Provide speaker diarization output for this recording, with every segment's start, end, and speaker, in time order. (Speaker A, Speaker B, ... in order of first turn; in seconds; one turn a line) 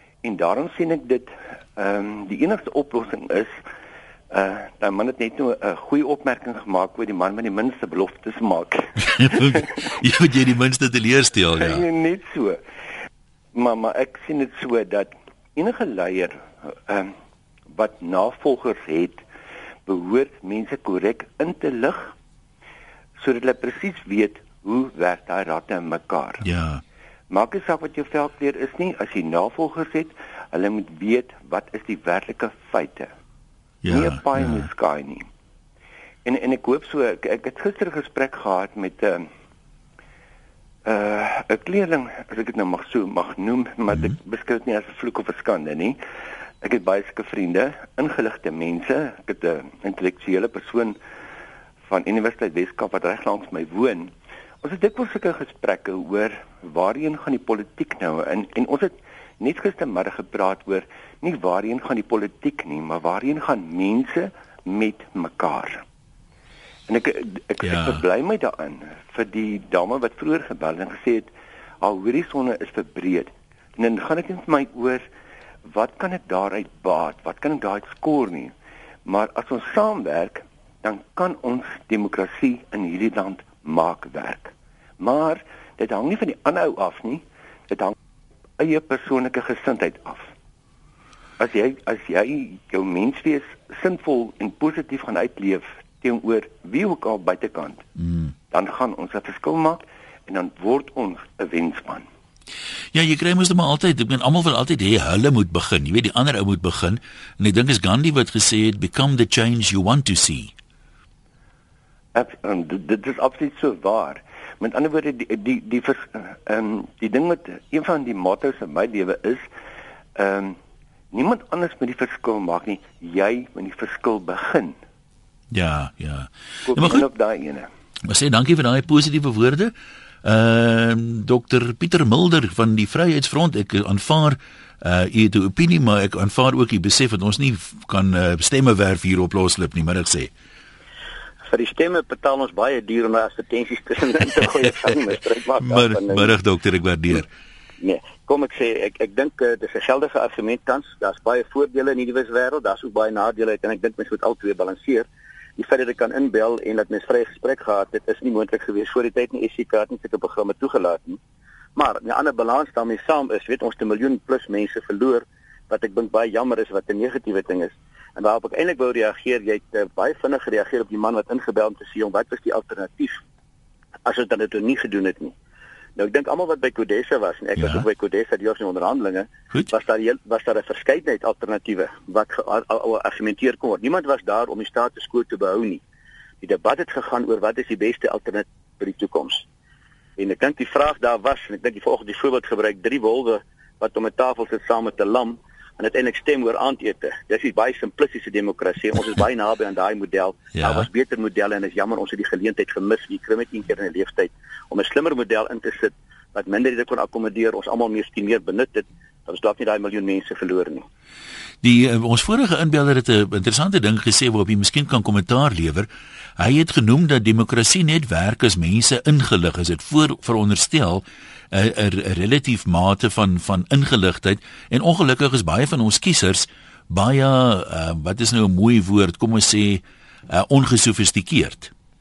Speaker A: 0.2-3.6
Speaker A: 4.3-9.8
Speaker B: 9.0-11.8
Speaker A: 11.5-12.6
Speaker A: 13.5-17.1
Speaker A: 17.7-19.2
Speaker A: 19.9-22.1
Speaker A: 23.2-26.4
Speaker B: 26.4-26.8
Speaker A: 27.3-33.1
Speaker B: 33.8-34.7
Speaker A: 33.9-35.3
Speaker A: 36.2-39.3
Speaker A: 40.9-46.0
Speaker A: 46.6-51.0
Speaker A: 51.9-65.8
Speaker A: 66.9-75.1
Speaker B: 67.6-68.0
Speaker A: 75.7-78.5
Speaker A: 79.0-88.0
Speaker A: 88.6-90.3
Speaker A: 91.4-97.9
Speaker B: 98.0-98.3
Speaker A: 98.5-102.1
Speaker B: 102.9-110.5
Speaker A: 112.2-119.5
Speaker A: 120.2-120.6
Speaker A: 121.1-124.8
Speaker B: 125.5-127.1
Speaker A: 126.7-127.7
Speaker B: 128.1-140.3
Speaker C: 141.5-146.3
Speaker B: 145.6-147.3
Speaker C: 147.8-161.2
Speaker C: 161.8-173.2
Speaker C: 174.1-175.3
Speaker C: 176.0-185.8
Speaker B: 177.6-177.9
Speaker C: 186.4-189.4
Speaker C: 190.2-210.9
Speaker B: 200.5-200.9
Speaker B: 211.6-231.7